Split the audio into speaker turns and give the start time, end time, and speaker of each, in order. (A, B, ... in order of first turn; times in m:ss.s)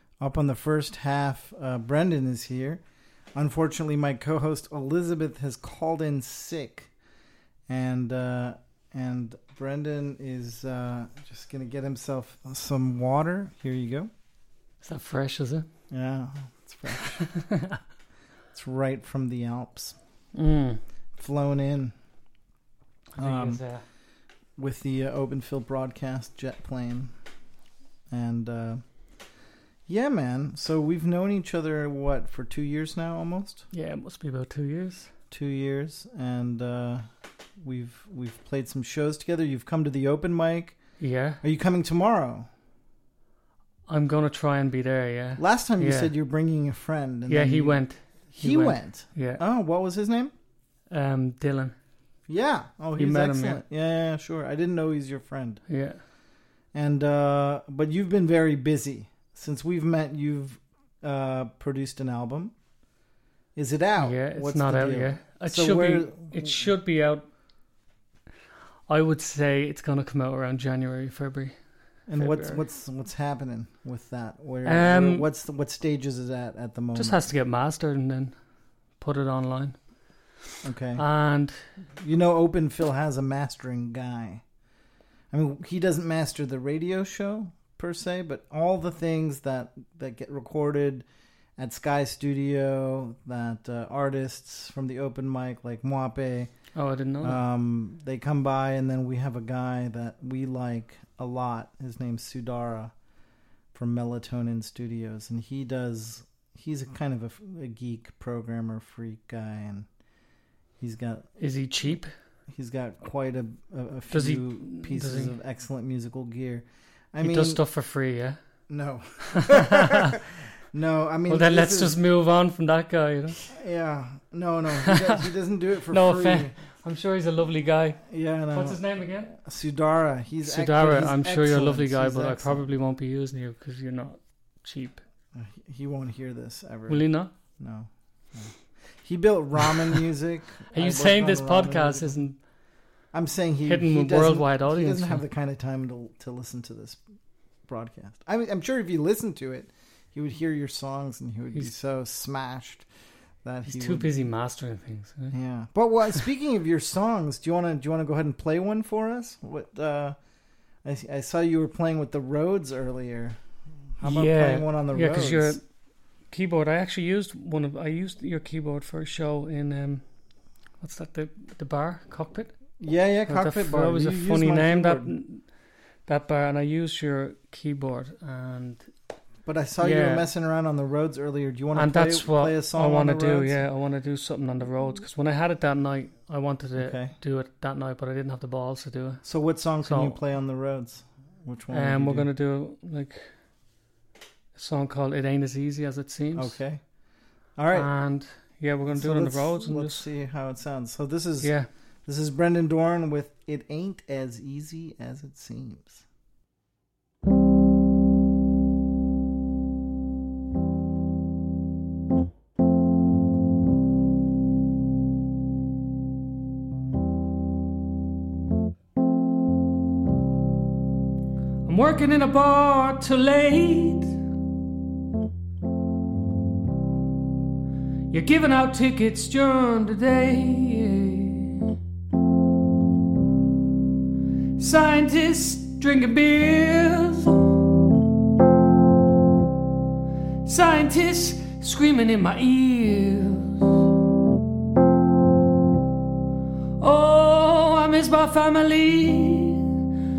0:00.2-0:06.9 A
0:07.7-0:14.1 A
0:14.8-0:15.7 B
0:15.9-0:17.4 A
0:18.5-0:19.9 A
0:20.3-0:20.8 B
0:21.2-0:21.9 A
0:23.1-0:23.8 B
0:23.2-0:23.9 A
0:24.6-0:27.1 A
0:28.1-0:29.2 A
0:29.9-0:33.7 A
0:33.7-0:35.1 B
0:35.3-0:37.0 A
0:37.6-0:42.5 A
0:41.0-0:41.4 B
0:43.9-0:46.1 B
0:45.4-0:50.3 A
0:47.3-0:49.4 B
0:50.9-0:51.8 B
0:52.3-0:55.6 A
0:53.0-0:53.6 B
0:55.7-0:56.0 B
0:56.7-1:02.6 A
1:03.5-1:06.7 A
1:04.0-1:07.3 B
1:08.9-1:12.6 B
1:12.1-1:17.3 A
1:14.6-1:15.3 B
1:16.9-1:20.4 B
1:20.6-1:21.0 A
1:21.0-1:21.8 B
1:22.0-1:24.5 A
1:25.3-1:31.0 A
1:31.6-1:42.9 A
1:36.7-1:37.4 B
1:43.7-1:49.9 A
1:50.8-1:52.0 A
1:51.4-1:52.1 B
1:52.5-1:57.6 A
1:54.1-1:55.4 B
1:57.2-1:58.4 B
1:58.7-2:00.2 A
2:00.7-2:02.0 A
2:01.3-2:03.5 B
2:03.5-2:06.6 A
2:05.9-2:09.3 B
2:08.1-2:12.6 A
2:10.4-2:15.0 B
2:15.3-2:22.4 A
2:16.9-2:17.3 B
2:20.7-2:22.4 B
2:23.1-2:32.9 A
2:23.6-2:25.2 B
2:33.4-2:34.2 A
2:33.6-2:35.4 B
2:35.3-2:40.2 A
2:40.7-2:45.6 A
2:44.0-2:50.2 B
2:50.8-2:58.9 B
2:52.8-2:55.1 A
2:59.4-3:03.6 A
2:59.8-3:00.3 B
3:01.7-3:10.2 B
3:06.8-3:07.1 A
3:09.2-3:12.3 A
3:11.7-3:13.3 B
3:14.5-3:16.6 B
3:16.3-3:17.9 A
3:17.7-3:20.1 B
3:18.8-3:26.0 A
3:21.4-3:21.7 B
3:41.6-3:44.2 B
3:48.1-3:51.7 B
3:54.6-3:57.6 B
4:00.4-4:03.8 B
4:06.8-4:09.7 B